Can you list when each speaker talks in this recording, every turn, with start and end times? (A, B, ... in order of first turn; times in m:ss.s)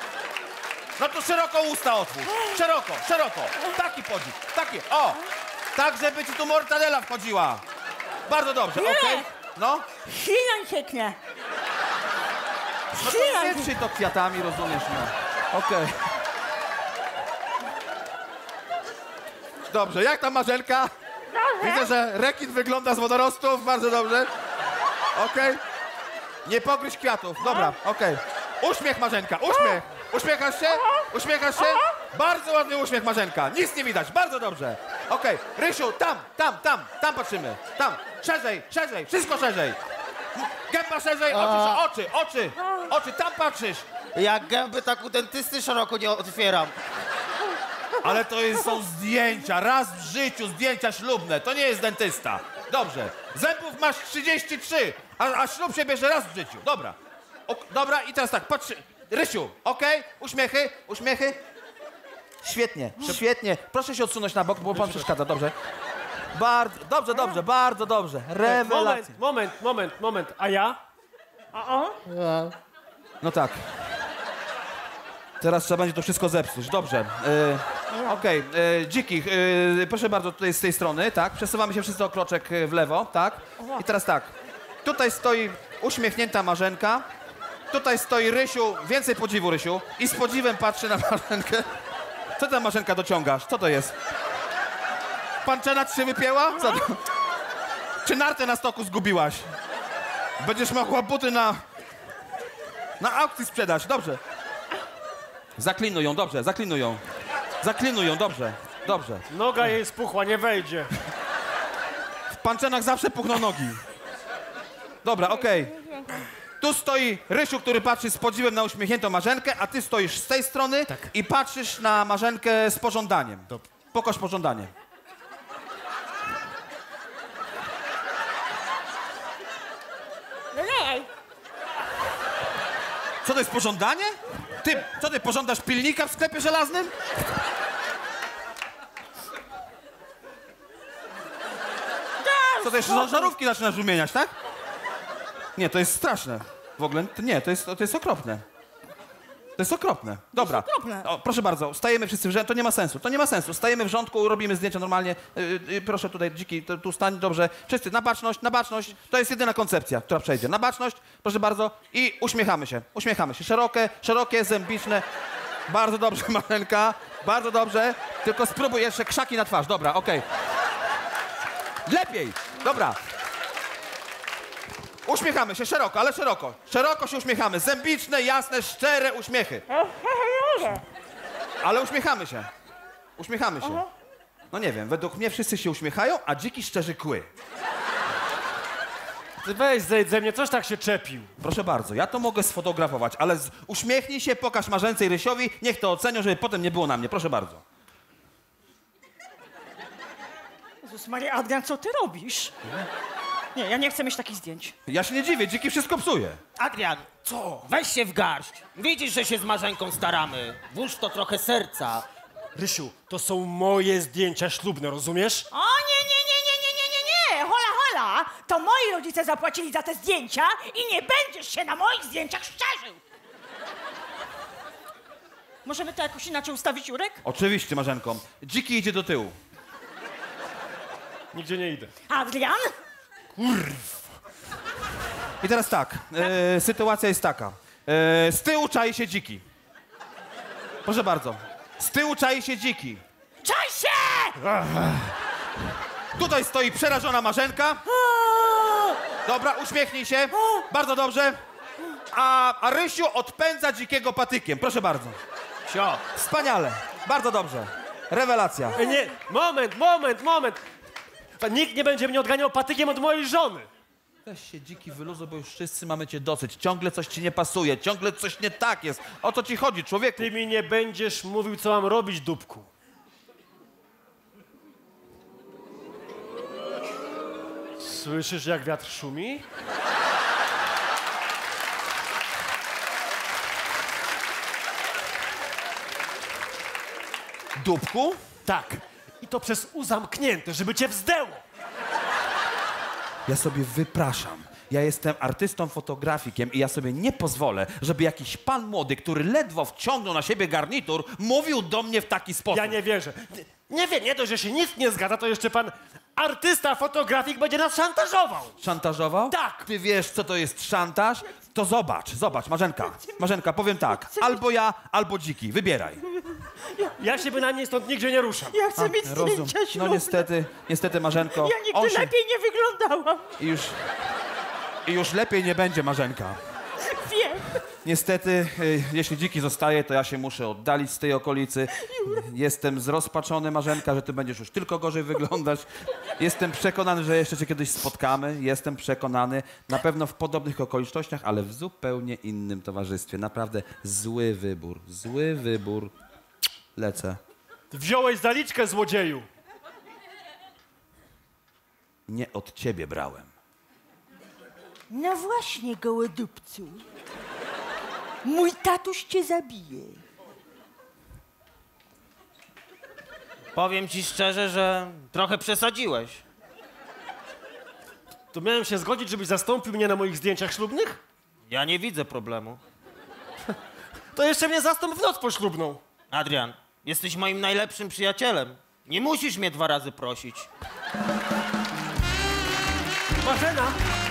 0:01.0-0:05.2 A
0:05.8-0:07.6 A
0:08.3-0:09.8 A
0:08.8-0:09.3 B
0:10.1-0:11.2 B
0:13.0-0:13.7 B
0:13.0-0:16.0 A
0:19.7-0:20.9 A
0:21.4-0:21.7 B
0:21.6-0:24.3 A
0:25.2-0:25.6 A
0:26.5-0:39.8 A
0:40.4-0:43.9 A
0:44.2-0:46.8 C
0:48.0-0:57.0 A
0:57.5-1:01.4 A
1:02.4-1:05.6 A
1:04.7-1:05.1 D
1:06.3-1:09.1 A
1:08.4-1:10.8 D
1:11.6-1:12.0 B
1:13.2-1:13.6 A
1:15.4-1:24.3 A
1:23.6-1:23.8 B
1:24.8-1:27.0 A
1:27.7-1:31.7 A
1:32.4-1:34.0 A
1:35.4-1:37.0 A
1:38.0-1:39.5 A
1:40.4-1:41.6 A
1:43.0-1:44.2 A
1:45.6-1:47.0 A
1:47.6-1:49.3 A
1:49.3-1:50.9 D
1:52.3-1:53.8 A
1:55.0-1:55.8 A
1:56.6-2:04.7 A
2:13.2-2:16.9 A
2:22.2-2:23.3 B
2:22.6-2:24.3 A
2:25.6-2:28.4 A
2:29.6-2:45.0 A
2:30.4-2:31.1 B
2:45.7-2:50.3 A
2:51.9-2:53.0 A
2:55.1-2:59.6 A
3:01.6-3:02.5 A
3:03.2-3:03.9 A
3:04.5-3:07.3 A
3:09.4-3:11.3 D
3:11.4-3:17.6 A
3:20.8-3:22.5 B
3:23.6-3:24.7 B
3:24.9-3:26.4 A
3:26.6-3:32.1 C
3:27.3-3:27.6 D
3:32.6-3:35.5 D
3:35.5-3:43.0 B
3:45.6-3:47.2 B
3:47.2-3:49.4 A
3:51.3-3:51.9 D
3:52.1-3:52.8 B
3:53.4-3:54.1 D
3:55.4-3:59.4 A
4:00.8-4:03.0 A
4:03.4-4:04.5 B
4:04.6-4:05.1 D
4:06.2-4:07.8 A
4:08.1-4:08.9 B
4:09.3-4:11.4 A
4:12.1-4:15.2 A
4:15.7-4:16.0 C
4:16.1-4:18.8 A
4:18.8-4:20.6 D
4:21.4-4:23.7 D
4:24.3-4:30.3 A
4:30.2-4:32.7 D
4:37.8-4:39.5 D
4:47.6-4:48.2 A
4:48.4-4:51.4 D
4:53.3-5:02.8 A
5:02.5-5:08.5 D
5:08.6-5:16.0 A
5:09.3-5:09.6 D
5:14.1-5:14.4 B
5:16.7-5:16.9 B
5:17.0-5:18.6 D
5:18.5-5:20.3 B
5:18.8-5:22.1 A
5:21.3-5:23.3 B
5:23.4-5:23.8 A
5:24.9-5:26.4 A
5:26.9-5:27.6 B
5:27.8-5:45.9 A
5:46.8-5:47.2 A
5:47.7-5:49.3 D
5:52.1-5:53.3 A
5:54.9-5:56.8 B
5:58.2-6:00.0 B
6:03.5-6:06.2 C
6:08.3-6:11.0 D
6:11.5-6:12.6 C
6:14.2-6:15.8 D
6:16.1-6:20.5 C
6:23.2-6:23.8 D